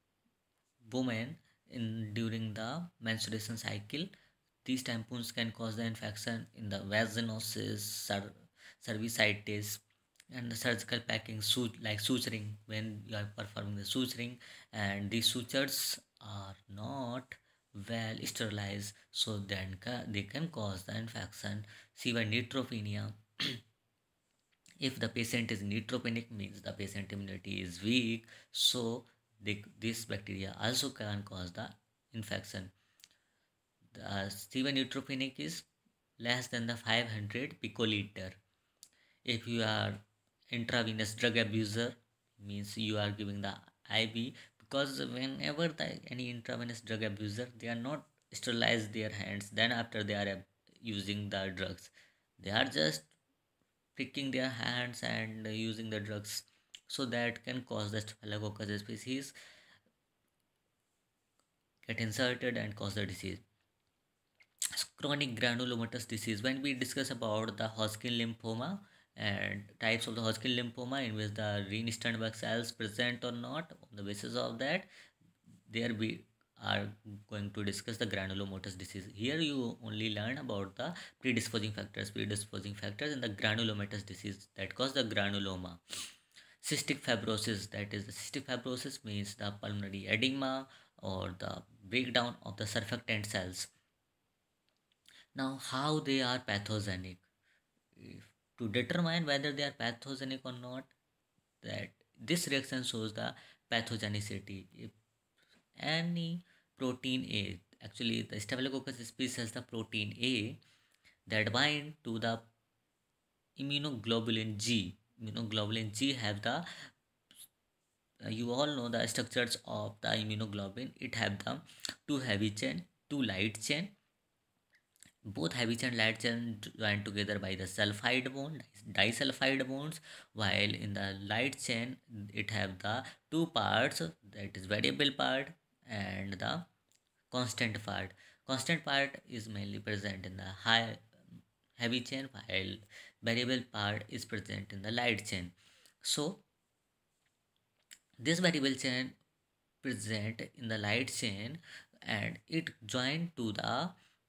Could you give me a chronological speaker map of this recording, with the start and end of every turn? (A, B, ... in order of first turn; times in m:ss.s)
0:00.8-0:04.1 A
0:04.6-0:23.6 A
0:24.8-0:32.7 A
0:33.9-0:35.6 A
0:36.2-0:38.4 A
0:39.2-0:53.1 A
0:54.0-0:59.3 A
1:01.8-1:03.4 A
1:04.8-1:14.9 A
1:15.7-1:25.8 A
1:26.6-1:33.7 A
1:35.3-1:37.2 A
1:38.0-1:40.9 A
1:41.6-1:44.9 A
1:45.8-1:50.6 A
1:51.3-1:52.5 A
1:53.6-1:56.6 A
1:58.2-2:03.9 A
2:05.2-2:16.7 A
2:17.3-2:21.0 A
2:21.8-2:26.4 A
2:28.2-2:29.2 A
2:29.8-2:33.9 A